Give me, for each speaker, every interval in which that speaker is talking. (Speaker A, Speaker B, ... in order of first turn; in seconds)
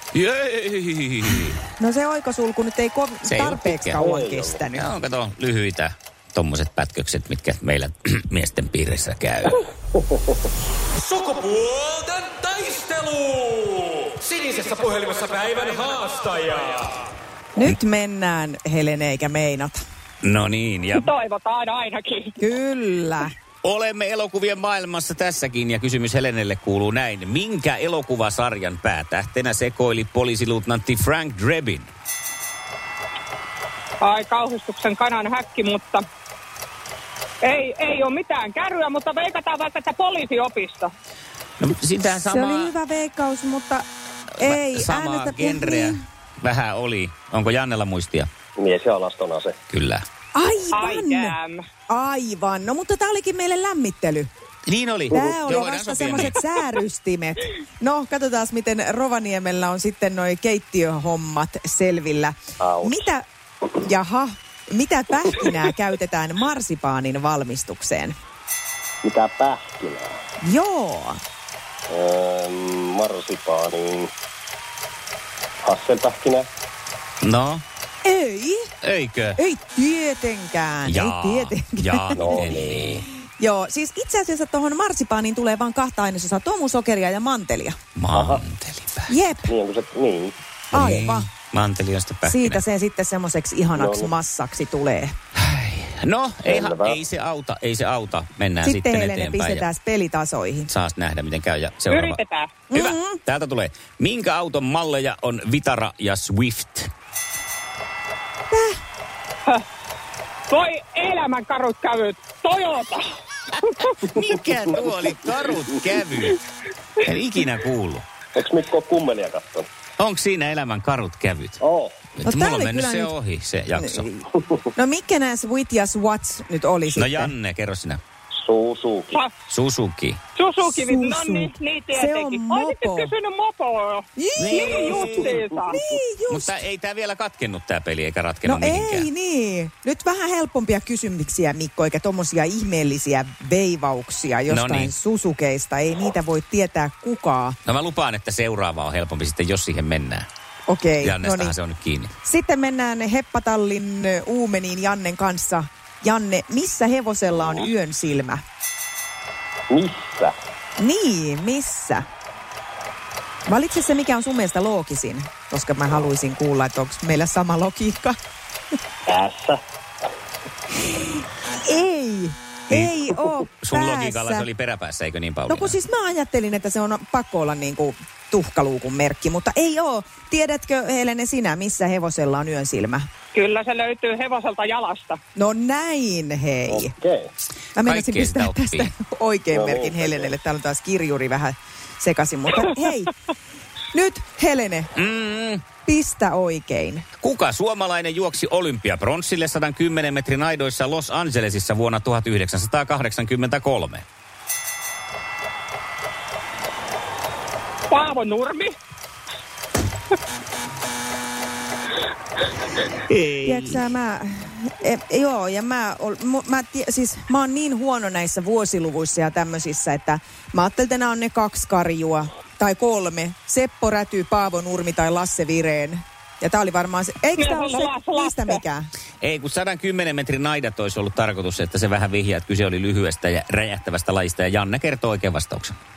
Speaker A: 0.1-1.6, 3.2-4.0, 4.7-9.6, 20.2-21.1, 23.6-31.9, 41.6-42.7, 44.4-48.3, 49.7-50.0, 54.6-56.4, 77.2-77.6, 78.8-79.4, 80.9-83.0, 88.0-89.1, 90.7-92.6, 95.4-99.6, 100.7-102.2, 102.7-106.9, 114.0-116.4, 117.0-118.0, 120.0-121.6, 122.2-124.1, 126.9-128.0, 129.5-130.2, 134.4-135.4, 136.3-139.1, 144.5-144.9, 147.6-150.2, 151.0-152.1, 173.6-175.8, 187.8-188.9, 194.9-195.7, 197.2-204.0, 213.1-213.8, 229.2-235.7
Speaker B: 1.8-4.9, 17.6-19.8, 22.4-23.3, 42.2-43.9, 44.4-46.0, 50.3-51.4, 51.9-54.3, 55.1-63.2, 63.8-68.1, 70.4-71.2, 78.0-78.7, 79.4-82.5, 83.4-87.8, 89.1-89.5, 90.7-91.3, 92.2-95.1, 98.6-100.7, 102.7-103.2, 122.2-123.2, 123.8-124.2, 124.7-127.3, 130.6-133.1, 134.2-135.1, 135.7-136.6, 138.4-147.6, 150.7-151.6, 152.2-158.4, 160.8-162.0, 163.5-168.2, 171.6-174.5, 175.5-183.1, 185.3-186.9, 187.7-193.1, 193.9-194.9, 195.8-197.0, 213.4-228.9
Speaker C: 4.0-4.6, 10.0-10.3, 48.6-49.5, 62.6-63.1, 69.0-70.2, 71.9-74.1, 75.6-76.5, 82.1-83.0, 88.1-88.4, 89.5-90.4, 93.7-94.1, 96.4-97.0, 118.3-119.7, 121.6-122.0, 128.3-129.2, 135.2-135.7, 159.7-160.3, 169.1-169.6, 186.7-187.3, 189.5-190.3
Speaker D: 11.0-16.7
Speaker E: 20.9-22.4, 34.0-36.0, 37.4-40.9, 50.7-51.6, 101.9-102.5, 110.5-113.0, 113.6-113.9, 130.3-135.8, 183.3-185.2, 207.9-208.7, 227.4-228.6